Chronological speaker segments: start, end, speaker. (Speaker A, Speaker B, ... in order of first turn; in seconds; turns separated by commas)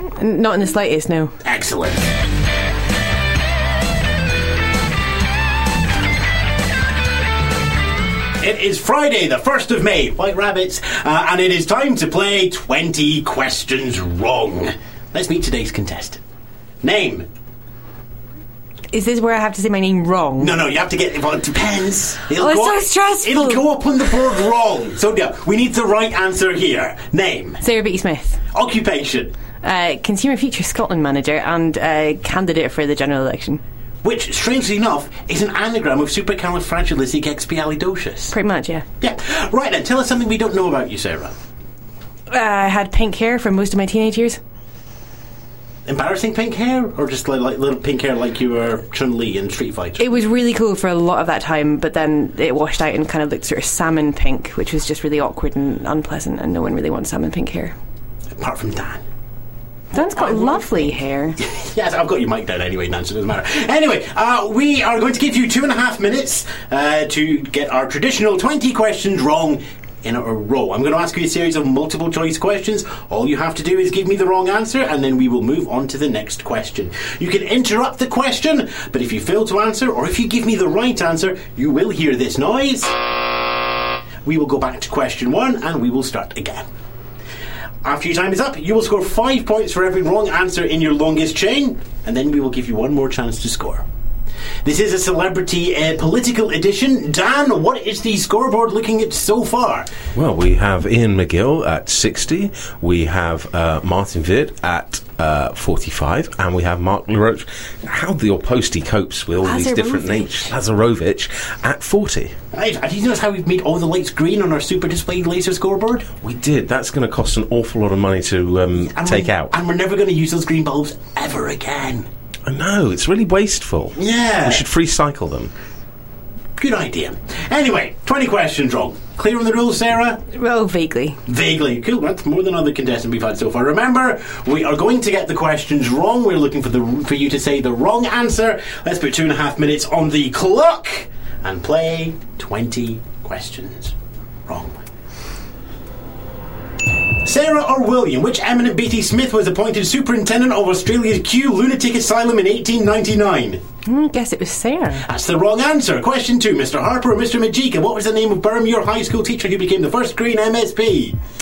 Speaker A: 0.2-1.4, Speaker B: 1.4-2.1, Speaker B: 8.4-16.2, Speaker B: 16.8-17.3, Speaker A: 18.9-20.6, Speaker B: 20.4-27.6, Speaker A: 22.4-23.6, Speaker A: 27.6-28.4, Speaker B: 28.5-29.3, Speaker A: 29.6-33.6, Speaker B: 34.0-38.4, Speaker A: 38.3-38.8, Speaker B: 39.0-41.4, Speaker A: 42.3-44.4, Speaker B: 45.9-50.1, Speaker A: 50.0-57.8, Speaker B: 58.4-59.0, Speaker A: 59.9-61.4, Speaker B: 59.9-82.9, Speaker B: 84.2-86.7, Speaker B: 87.8-93.8, Speaker B: 94.7-99.9, Speaker C: 100.1-112.3, Speaker A: 109.4-110.5, Speaker B: 112.5-116.1, Speaker C: 116.2-119.5, Speaker B: 118.8-122.1, Speaker C: 122.5-125.5, Speaker B: 124.0-124.7, Speaker B: 126.6-130.2, Speaker A: 130.3-131.2, Speaker B: 131.3-143.9, Speaker B: 144.5-144.8, Speaker B: 147.2-153.6, Speaker A: 153.9-155.1, Speaker B: 155.1-161.2